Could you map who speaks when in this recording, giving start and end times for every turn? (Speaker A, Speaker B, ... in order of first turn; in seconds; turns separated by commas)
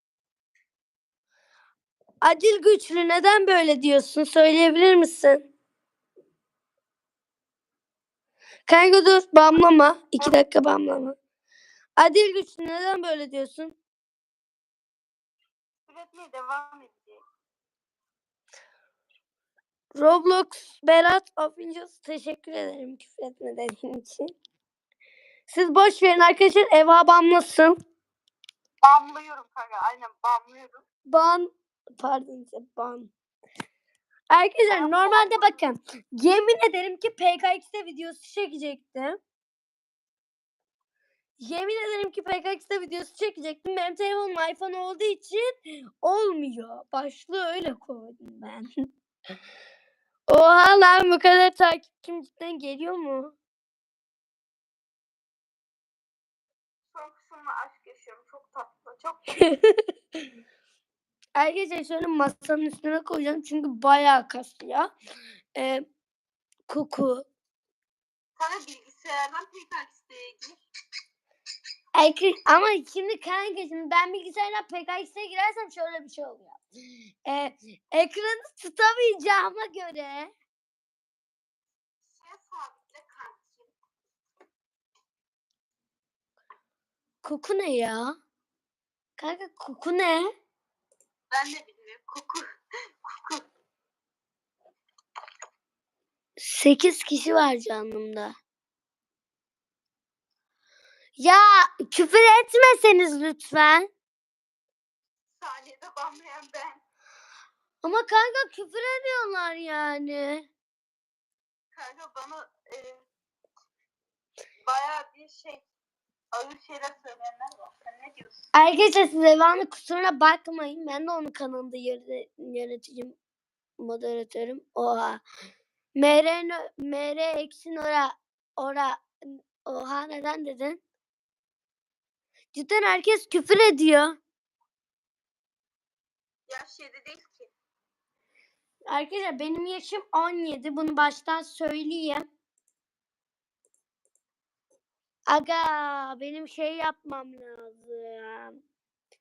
Speaker A: 2.2-5.5, Speaker A: 8.7-11.2, Speaker A: 12.0-13.7, Speaker B: 15.9-17.2, Speaker A: 19.9-24.3, Speaker A: 25.5-27.8, Speaker B: 28.8-30.8, Speaker A: 31.1-33.1, Speaker A: 34.3-39.2, Speaker B: 34.7-35.6, Speaker A: 41.4-48.7, Speaker A: 50.3-53.3, Speaker B: 56.9-59.4, Speaker A: 59.4-59.9, Speaker A: 61.4-64.9, Speaker A: 65.5-65.8, Speaker A: 66.7-67.2, Speaker B: 68.4-70.6, Speaker A: 72.0-76.6, Speaker A: 77.2-80.3, Speaker B: 82.0-83.7, Speaker A: 87.2-88.2, Speaker A: 89.2-90.3, Speaker B: 91.3-92.4, Speaker B: 93.0-93.4, Speaker A: 96.4-98.3, Speaker A: 101.2-103.9, Speaker B: 105.3-106.8, Speaker A: 107.8-110.5, Speaker B: 111.7-113.0, Speaker B: 114.6-115.6, Speaker B: 116.3-118.3, Speaker A: 118.5-123.2, Speaker A: 123.8-125.2, Speaker A: 126.0-130.8, Speaker A: 132.5-134.2, Speaker B: 136.5-137.5, Speaker A: 138.9-142.2, Speaker A: 145.3-148.6